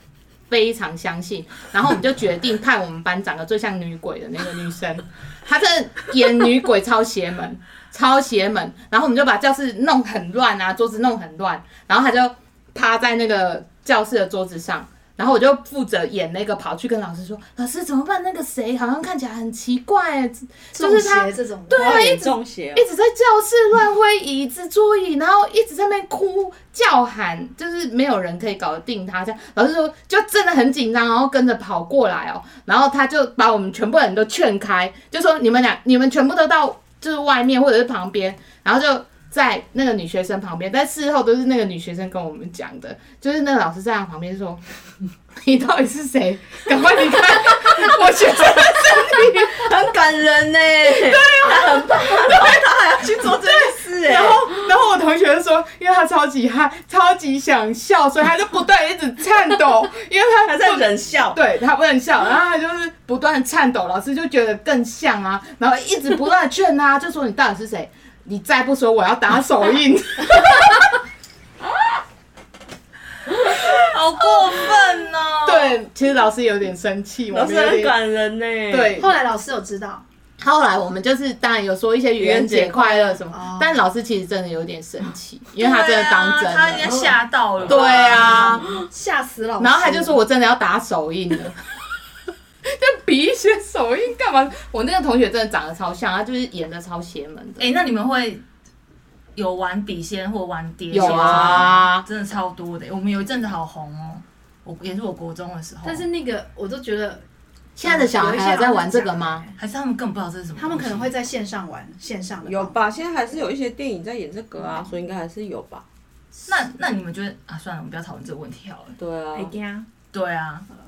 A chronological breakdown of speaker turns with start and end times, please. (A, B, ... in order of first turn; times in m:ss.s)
0:00.5-0:44.6 A
0:20.7-0:22.0 B
0:21.7-0:22.8 C
0:45.4-0:49.7 A
0:48.7-0:54.5 C
0:51.0-0:52.7 A
0:53.2-1:11.0 A
1:00.4-1:01.4 C
1:13.3-1:15.8 D
1:15.4-1:17.9 A
1:17.3-1:18.9 C
1:18.7-1:19.1 A
1:19.0-1:20.0 B
1:20.4-1:27.1 A
1:22.2-1:23.2 C
1:23.3-1:23.7 B
1:25.6-1:28.6 D
1:27.6-1:28.7 A
1:28.1-1:28.5 C
1:28.3-1:30.2 B
1:29.6-1:31.6 A
1:32.6-1:37.6 A
1:37.6-1:38.4 D
1:39.4-1:46.0 D
1:40.9-1:42.0 A
1:45.8-1:47.2 B
1:47.8-1:49.4 A
1:47.8-1:49.5 B
1:49.6-1:51.1 D
1:50.6-1:52.9 B
1:52.4-1:55.8 C
1:56.5-1:59.0 D
1:59.0-1:59.5 C
1:59.3-1:59.9 B
2:00.1-2:00.6 D